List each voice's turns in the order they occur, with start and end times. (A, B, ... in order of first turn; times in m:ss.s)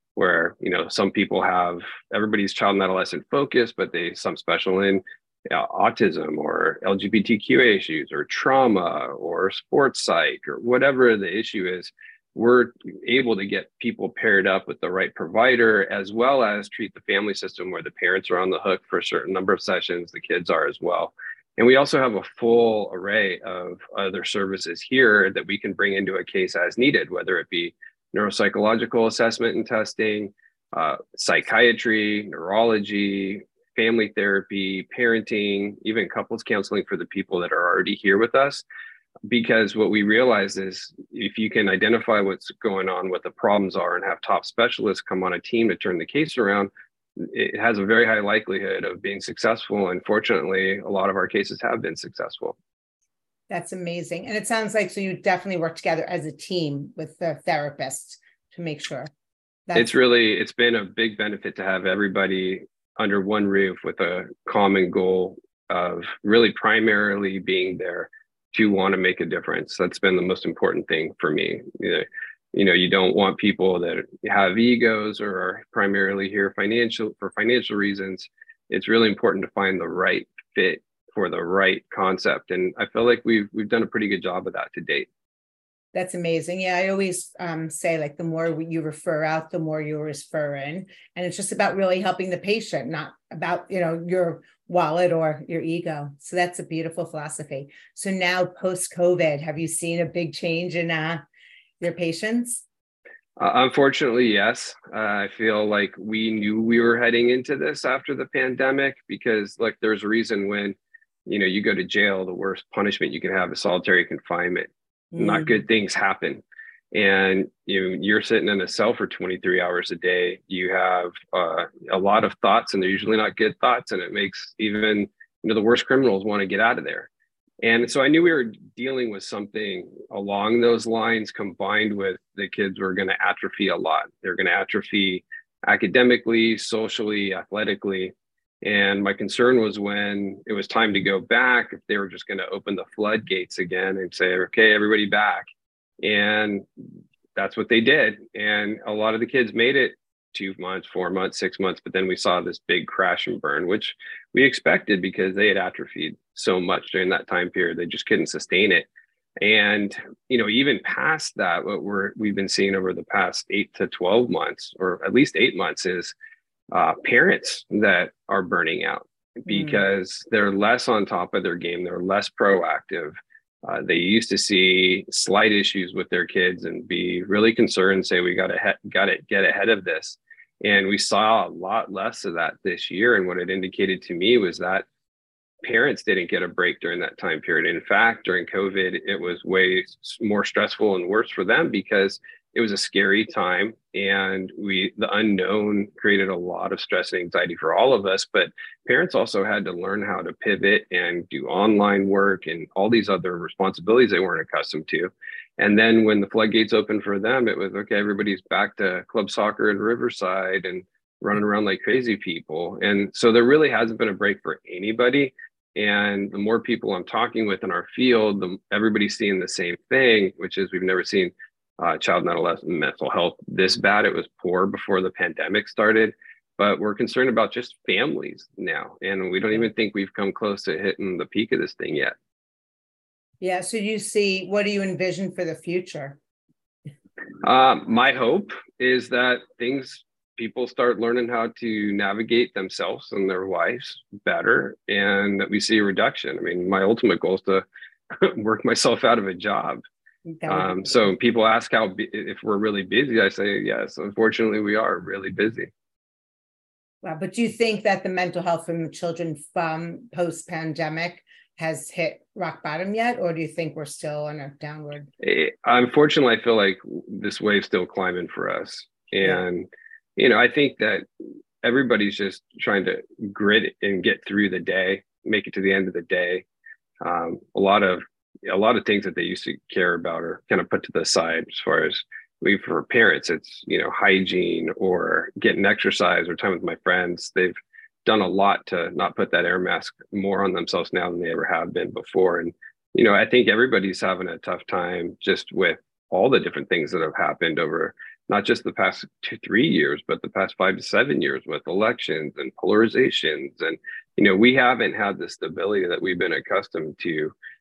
0:00.2-0:38.6 A
0:39.3-0:52.6 A
0:53.5-0:59.1 B
0:59.7-0:59.9 B
0:59.8-1:25.1 A
1:25.9-1:41.2 B
1:41.8-1:42.6 B
1:43.4-1:56.4 A
1:55.1-1:55.5 B
1:56.9-2:07.1 A
2:07.6-2:25.4 A
2:26.0-2:26.6 A
2:27.4-2:38.9 A
2:39.4-2:46.1 A
2:46.7-3:04.8 A
2:49.5-2:49.8 B
3:05.6-3:52.1 A
3:53.4-3:56.2 B
3:57.4-4:09.8 A
4:10.3-4:10.9 B
4:10.5-4:15.7 A
4:17.0-4:25.1 B
4:25.2-4:31.0 A
4:31.6-4:36.4 A
4:37.0-5:07.3 A